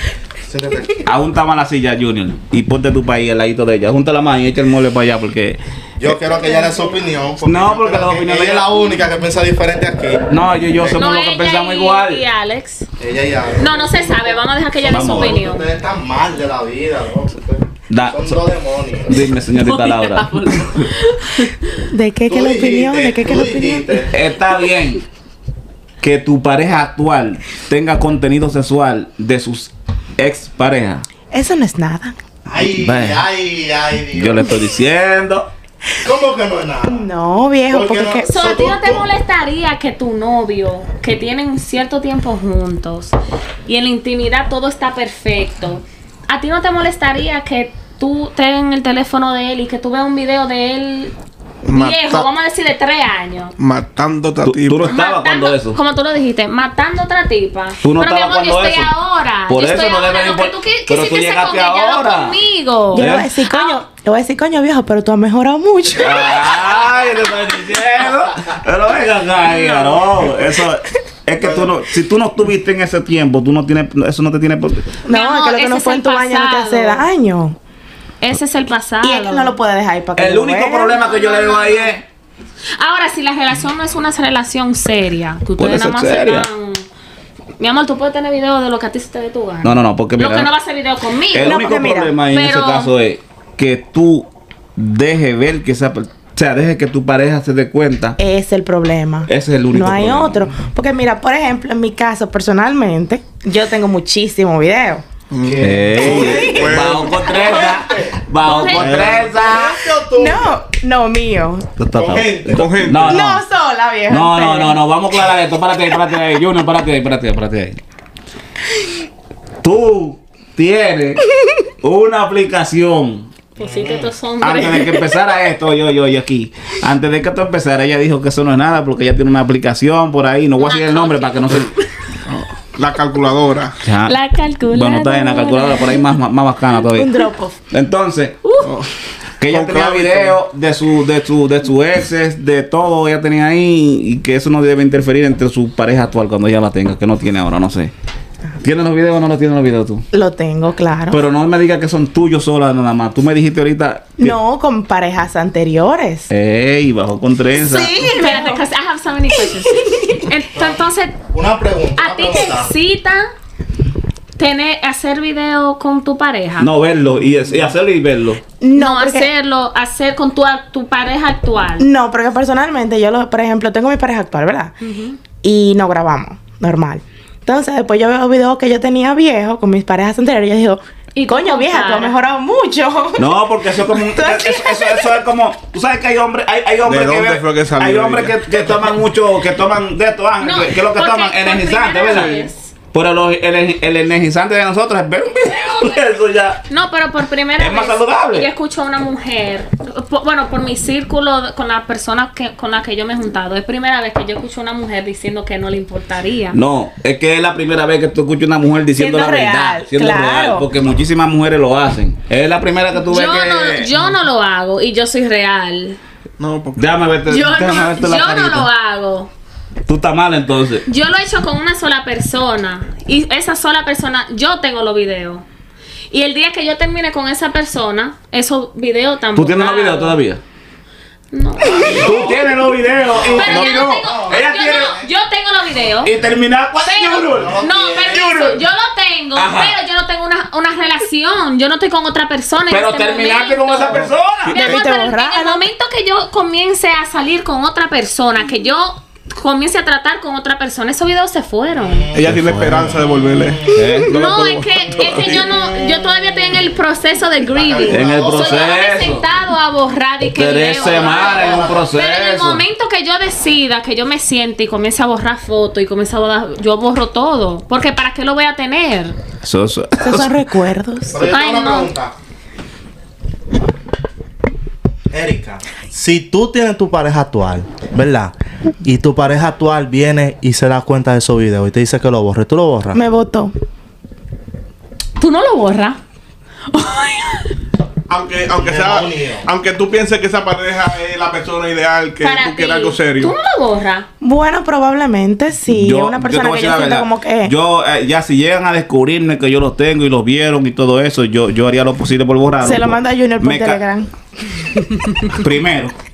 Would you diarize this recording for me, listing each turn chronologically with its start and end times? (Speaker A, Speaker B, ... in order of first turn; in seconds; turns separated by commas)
Speaker A: 0.5-1.1, Speaker B: 1.1-5.6, Speaker A: 6.0-11.1, Speaker B: 7.4-8.8, Speaker B: 10.3-12.2, Speaker C: 10.9-12.9, Speaker A: 13.0-19.2, Speaker C: 13.6-15.7, Speaker B: 14.9-15.4, Speaker B: 17.9-18.4, Speaker B: 19.1-20.9, Speaker C: 19.6-21.8, Speaker D: 21.9-24.1, Speaker A: 22.3-24.2, Speaker B: 24.1-25.0, Speaker B: 26.0-31.1, Speaker D: 31.3-32.2, Speaker A: 32.5-34.6, Speaker B: 32.6-33.2, Speaker B: 34.1-35.5, Speaker A: 36.0-37.1, Speaker D: 36.9-38.3, Speaker A: 37.7-39.1, Speaker C: 38.3-51.1, Speaker E: 51.6-52.3, Speaker C: 51.7-53.5, Speaker E: 53.6-55.0, Speaker B: 54.4-55.8, Speaker C: 54.9-63.8, Speaker B: 57.8-58.9, Speaker B: 59.5-62.4, Speaker D: 62.9-66.4, Speaker B: 62.9-63.3, Speaker B: 66.0-74.9, Speaker C: 69.4-70.1, Speaker A: 71.4-71.7, Speaker D: 75.0-77.6, Speaker C: 75.1-77.0, Speaker C: 78.2-79.5, Speaker D: 79.0-81.0, Speaker B: 80.2-82.0, Speaker C: 80.9-82.0, Speaker C: 82.8-86.8, Speaker B: 85.6-86.5, Speaker C: 87.6-91.6, Speaker B: 89.6-90.5, Speaker B: 91.3-98.2, Speaker D: 91.4-92.1, Speaker C: 92.3-92.9, Speaker D: 98.2-105.0, Speaker B: 99.3-100.5, Speaker E: 105.3-107.2, Speaker A: 105.5-108.2, Speaker B: 105.6-109.8, Speaker D: 106.0-107.7, Speaker C: 108.4-109.0, Speaker A: 108.7-110.6, Speaker D: 110.1-111.7, Speaker B: 111.8-113.4, Speaker A: 112.0-112.8, Speaker E: 112.5-113.2, Speaker D: 113.0-114.8, Speaker B: 114.1-117.8, Speaker B: 119.6-121.2, Speaker B: 121.8-123.3, Speaker C: 123.6-125.1, Speaker A: 123.6-124.1, Speaker B: 124.4-131.7, Speaker C: 130.6-131.8, Speaker E: 132.3-133.8, Speaker B: 133.8-134.2, Speaker C: 134.1-136.1, Speaker B: 134.7-138.4, Speaker D: 136.9-137.6, Speaker C: 138.4-138.8, Speaker E: 138.6-138.9, Speaker B: 139.4-147.9, Speaker E: 139.5-140.4, Speaker B: 148.6-150.1, Speaker D: 150.1-151.2, Speaker B: 151.1-154.4, Speaker D: 154.2-156.3, Speaker B: 156.3-158.1, Speaker C: 157.6-161.2, Speaker D: 157.7-158.6, Speaker D: 159.8-160.2, Speaker A: 160.6-162.7, Speaker C: 162.0-163.3, Speaker C: 164.4-166.7, Speaker B: 166.6-168.4, Speaker D: 168.6-169.3, Speaker C: 168.8-171.9, Speaker D: 171.8-174.8, Speaker C: 174.8-175.2, Speaker D: 175.4-185.1, Speaker C: 181.2-182.2, Speaker B: 183.2-192.4, Speaker E: 186.8-188.4, Speaker C: 190.4-192.7, Speaker E: 192.1-192.5, Speaker B: 192.9-196.7, Speaker C: 196.7-206.6, Speaker B: 197.6-198.5, Speaker B: 206.5-213.9, Speaker D: 208.9-210.7, Speaker C: 213.1-216.0, Speaker E: 216.4-216.9, Speaker B: 216.8-218.7, Speaker C: 217.3-219.3, Speaker B: 219.9-220.9, Speaker C: 220.9-225.4, Speaker C: 226.1-230.2, Speaker B: 229.4-230.4, Speaker C: 231.3-232.4, Speaker A: 231.7-232.2, Speaker B: 231.8-235.0, Speaker A: 233.1-235.0, Speaker C: 233.2-236.1, Speaker B: 236.0-238.6, Speaker C: 236.8-252.1, Speaker A: 237.3-238.3, Speaker B: 239.4-239.8, Speaker B: 242.7-244.7, Speaker E: 244.5-244.8, Speaker D: 244.5-245.7, Speaker A: 251.8-253.9, Speaker E: 252.1-255.6, Speaker B: 252.3-252.9, Speaker B: 253.7-254.1, Speaker C: 254.1-269.2, Speaker A: 257.5-258.8, Speaker B: 257.9-259.3, Speaker B: 260.4-262.6, Speaker A: 261.2-261.8, Speaker B: 269.4-270.4, Speaker D: 270.0-271.3, Speaker A: 271.1-272.1, Speaker C: 271.3-271.9, Speaker A: 275.1-283.0, Speaker D: 282.9-283.5, Speaker C: 285.2-286.0, Speaker D: 286.7-287.4, Speaker E: 288.1-293.4, Speaker A: 288.6-289.5, Speaker C: 292.2-294.1, Speaker D: 294.2-297.5, Speaker B: 295.7-303.8, Speaker D: 302.6-304.1, Speaker B: 305.2-305.9